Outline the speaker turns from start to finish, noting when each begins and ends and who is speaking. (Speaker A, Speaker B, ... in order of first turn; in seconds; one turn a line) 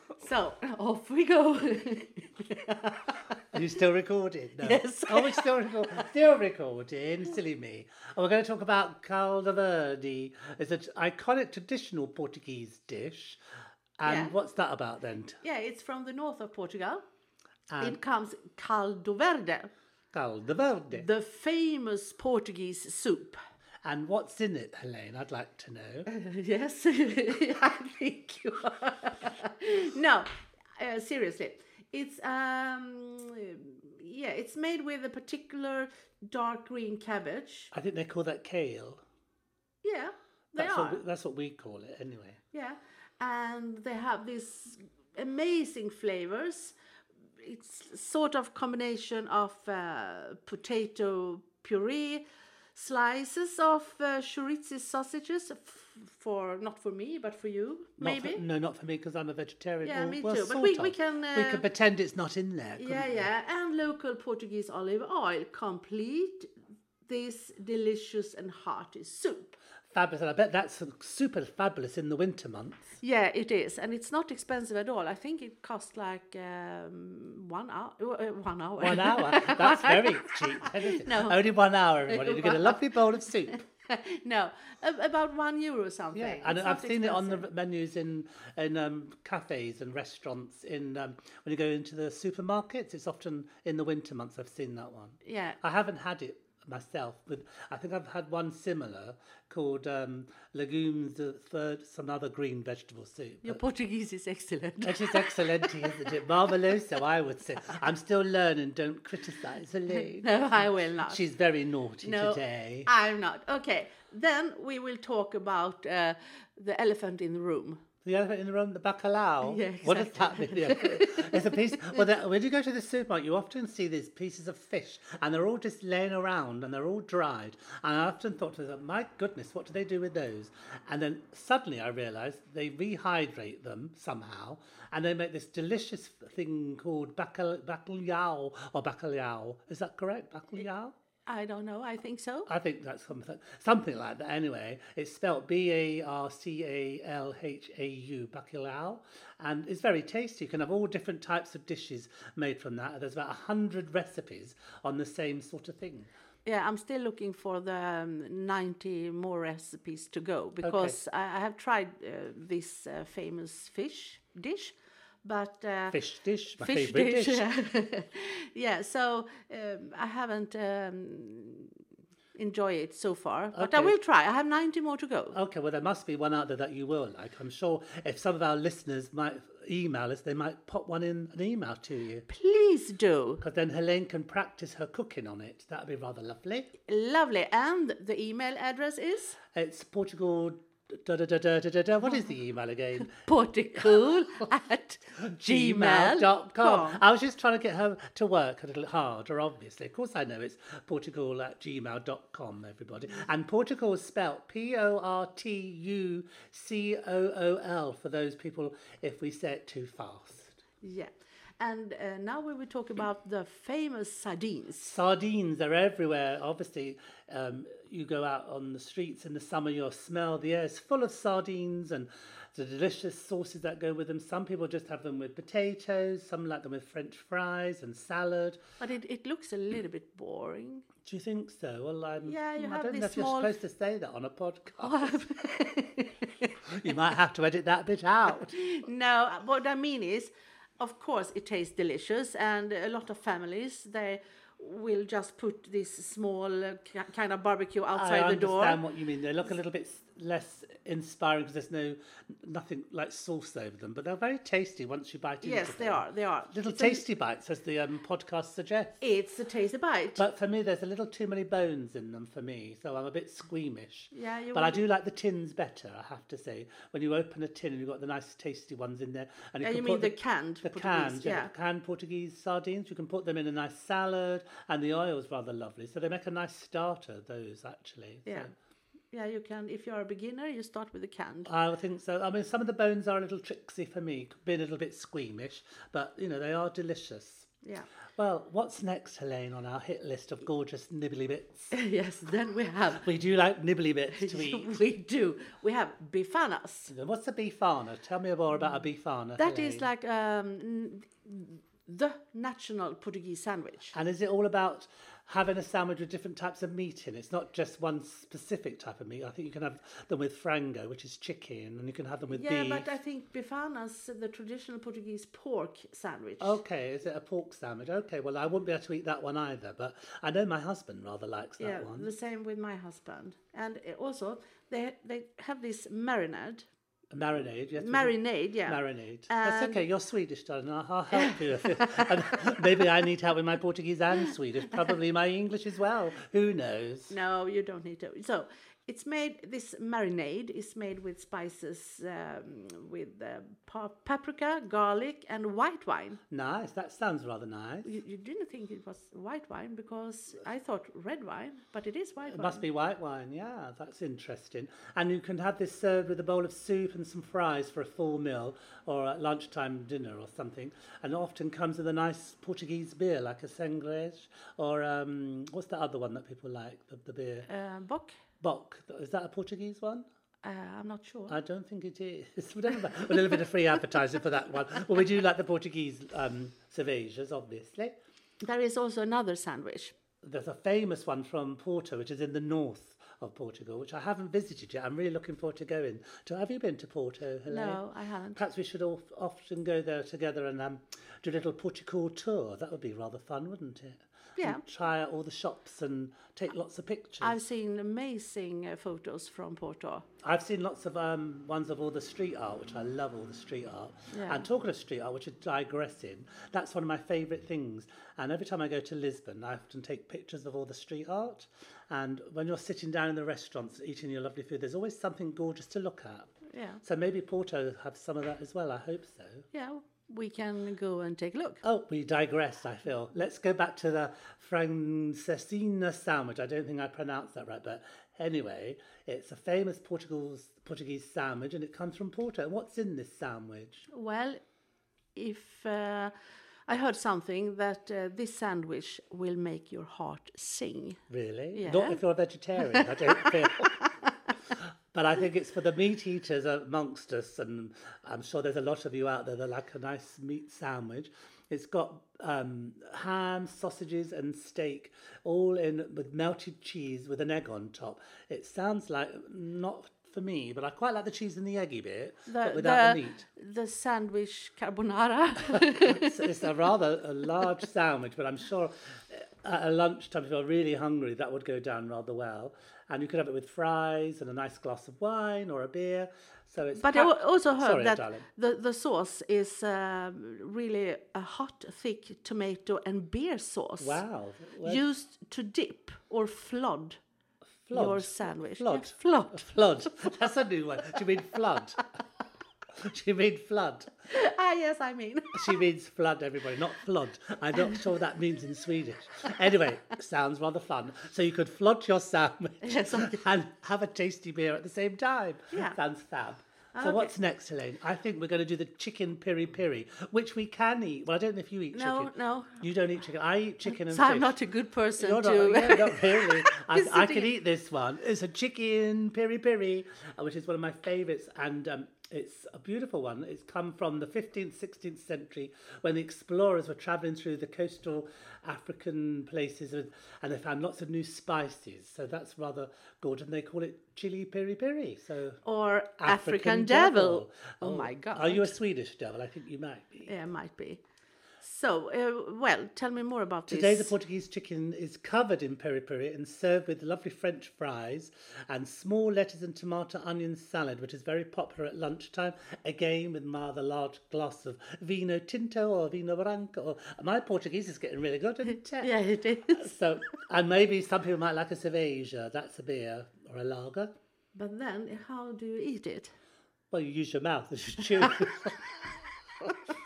Speaker A: 0.2-3.4
Speaker B: 3.5-13.4
Speaker A: 4.6-6.1
Speaker B: 14.0-15.4
Speaker A: 14.0-14.3
Speaker A: 15.4-17.0
Speaker B: 17.7-18.0
Speaker A: 17.8-19.7
Speaker B: 20.1-21.1
Speaker A: 20.9-23.4
Speaker B: 23.8-26.1
Speaker A: 26.1-37.7
Speaker B: 37.7-39.0
Speaker A: 39.8-41.0
Speaker B: 40.5-42.4
Speaker A: 42.5-46.8
Speaker A: 47.4-58.4
Speaker B: 58.0-63.2
Speaker A: 59.8-61.6
Speaker A: 62.8-66.5
Speaker A: 67.0-69.6
Speaker B: 69.9-72.8
Speaker A: 73.0-81.4
Speaker B: 78.8-83.6
Speaker A: 82.1-82.9
Speaker A: 83.9-87.5
Speaker B: 86.1-103.6
Speaker A: 95.2-95.6
Speaker A: 103.4-106.0
Speaker B: 104.8-112.9
Speaker A: 109.9-111.2
Speaker A: 112.0-117.8
Speaker B: 118.0-140.9
Speaker A: 119.4-122.0
Speaker A: 141.2-142.5
Speaker B: 142.5-156.1
Speaker A: 156.4-166.0
Speaker B: 160.6-161.0
Speaker B: 165.9-167.4
Speaker A: 166.5-171.7
Speaker A: 172.3-175.3
Speaker B: 173.5-173.9
Speaker B: 175.3-182.3
Speaker A: 182.3-183.4
Speaker B: 183.4-186.7
Speaker A: 186.8-189.4
Speaker B: 189.5-193.2
Speaker A: 193.0-197.0
Speaker B: 195.2-210.6
Speaker A: 210.8-214.9
Speaker B: 214.8-228.6
Speaker A: 228.8-230.8
Speaker B: 231.0-235.2
Speaker A: 232.2-233.5
Speaker A: 234.8-236.6
Speaker B: 236.7-238.6
Speaker A: 238.5-248.8
Speaker B: 247.9-259.0
Speaker A: 255.4-257.0
Speaker A: 259.0-260.2
Speaker B: 260.2-278.5
Speaker A: 264.1-264.8
Speaker A: 269.6-271.5
Speaker A: 278.2-278.5
Speaker A: 279.1-281.5
Speaker B: 281.4-287.5
Speaker B: 288.1-291.7
Speaker A: 291.7-293.1
Speaker B: 292.9-294.7
Speaker A: 294.1-296.9
Speaker B: 296.9-299.9
Speaker A: 299.4-303.9
Speaker B: 303.9-312.9
Speaker A: 312.3-316.6
Speaker B: 316.4-322.1
Speaker A: 321.6-326.7
Speaker B: 327.1-337.1
Speaker A: 327.8-329.8
Speaker A: 331.1-332.8
Speaker A: 337.1-346.2
Speaker B: 346.3-348.0
Speaker A: 347.8-352.6
Speaker B: 352.3-367.5
Speaker A: 367.5-368.2
Speaker B: 368.4-370.1
Speaker A: 370.4-371.4
Speaker B: 371.3-377.9
Speaker A: 378.4-379.9
Speaker B: 380.2-387.8
Speaker A: 387.5-388.4
Speaker B: 388.3-397.4
Speaker A: 394.4-394.6
Speaker A: 397.2-400.1
Speaker B: 400.2-416.3
Speaker A: 404.1-404.4
Speaker A: 416.5-416.8
Speaker B: 416.8-419.5
Speaker A: 419.5-421.6
Speaker B: 421.6-433.9
Speaker A: 433.9-434.4
Speaker A: 435.1-436.1
Speaker A: 436.7-441.0
Speaker B: 441.1-443.8
Speaker A: 441.5-442.0
Speaker A: 442.6-444.1
Speaker B: 444.5-463.2
Speaker A: 462.3-466.2
Speaker B: 465.5-478.3
Speaker A: 476.8-484.0
Speaker B: 483.8-484.8
Speaker A: 484.6-487.0
Speaker B: 487.6-491.8
Speaker A: 487.7-490.1
Speaker B: 492.7-493.9
Speaker A: 494.1-495.6
Speaker B: 495.3-514.4
Speaker A: 502.6-503.2
Speaker A: 505.5-505.8
Speaker A: 506.7-507.1
Speaker A: 511.7-512.6
Speaker A: 513.7-517.3
Speaker B: 515.0-535.4
Speaker A: 535.4-538.5
Speaker B: 536.0-540.1
Speaker A: 540.0-540.8
Speaker A: 541.4-543.9
Speaker B: 543.5-558.9
Speaker A: 558.8-559.8
Speaker B: 559.5-563.9
Speaker A: 564.3-566.1
Speaker B: 566.7-568.7